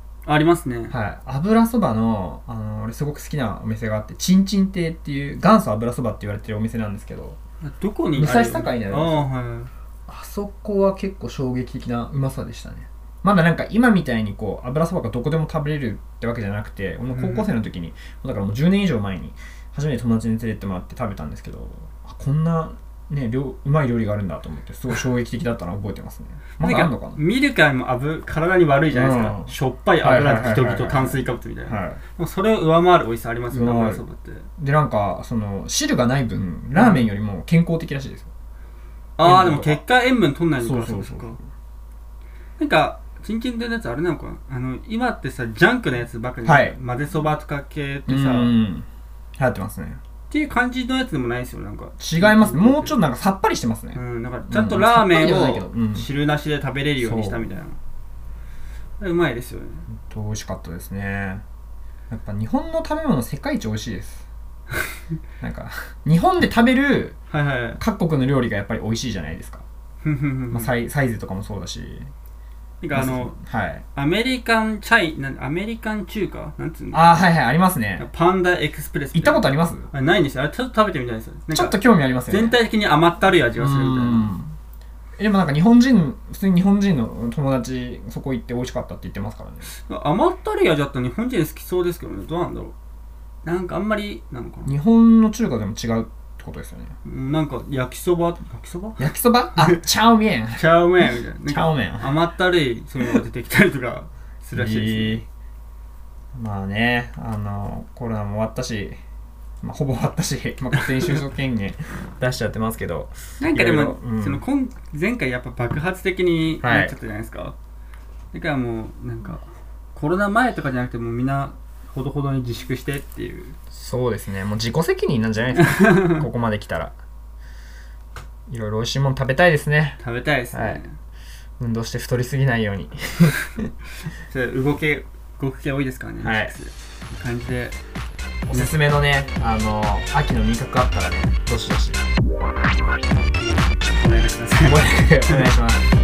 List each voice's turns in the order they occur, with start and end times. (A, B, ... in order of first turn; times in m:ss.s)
0:00.2-0:00.9 A
0:00.9-0:07.4 B
0:07.6-0:09.7 A
0:08.2-0:09.3 B
0:10.1-0:27.2 B
0:17.1-0:17.5 A
0:26.6-0:34.5 A
0:28.9-0:32.0 B
0:33.5-0:34.0 B
0:34.6-0:38.3 B
0:36.7-0:37.1 A
0:39.2-0:41.4 A
0:39.2-0:39.8 B
0:40.6-0:41.4 B
0:42.6-0:48.6 A
0:46.4-0:46.8 B
0:48.1-0:48.9 B
0:49.4-0:50.0 B
0:50.3-0:53.0 A
0:52.0-0:56.1 B
0:53.9-0:57.8 A
0:57.0-0:57.5 B
0:59.0-0:59.9 A
0:59.9-1:01.4 B
1:02.1-1:04.2 B
1:05.4-1:07.2 B
1:07.3-1:07.8 A
1:07.8-1:09.6 B
1:10.0-1:10.7 A
1:10.5-1:12.1 B
1:12.8-1:13.4 A
1:12.9-1:13.8 B
1:13.9-1:17.2 A
1:16.9-1:18.1 B
1:18.0-1:24.3 A
1:19.1-1:19.9 B
1:21.5-1:22.6 B
1:23.6-1:24.5 B
1:25.2-1:29.7 B
1:29.6-1:32.7 A
1:33.4-1:34.8 A
1:34.6-1:36.9 B
1:37.0-1:39.1 A
1:39.0-1:40.6 B
1:40.6-1:45.2 A
1:41.4-1:42.1 B
1:44.5-1:45.3 B
1:46.3-1:49.0 B
1:49.6-1:54.4 B
1:50.8-1:51.2 A
1:53.4-1:57.5 A
1:56.6-1:56.9 B
1:58.3-2:03.6 A
2:03.7-2:06.9 B
2:05.8-2:06.2 A
2:08.5-2:10.0 B
2:10.0-2:11.0 A
2:10.5-2:10.8 B
2:11.6-2:13.6 B
2:14.2-2:17.8 A
2:16.2-2:16.6 B
2:18.5-2:22.0 B
2:18.5-2:18.8 A
2:23.4-2:25.4 A
2:24.6-2:25.9 B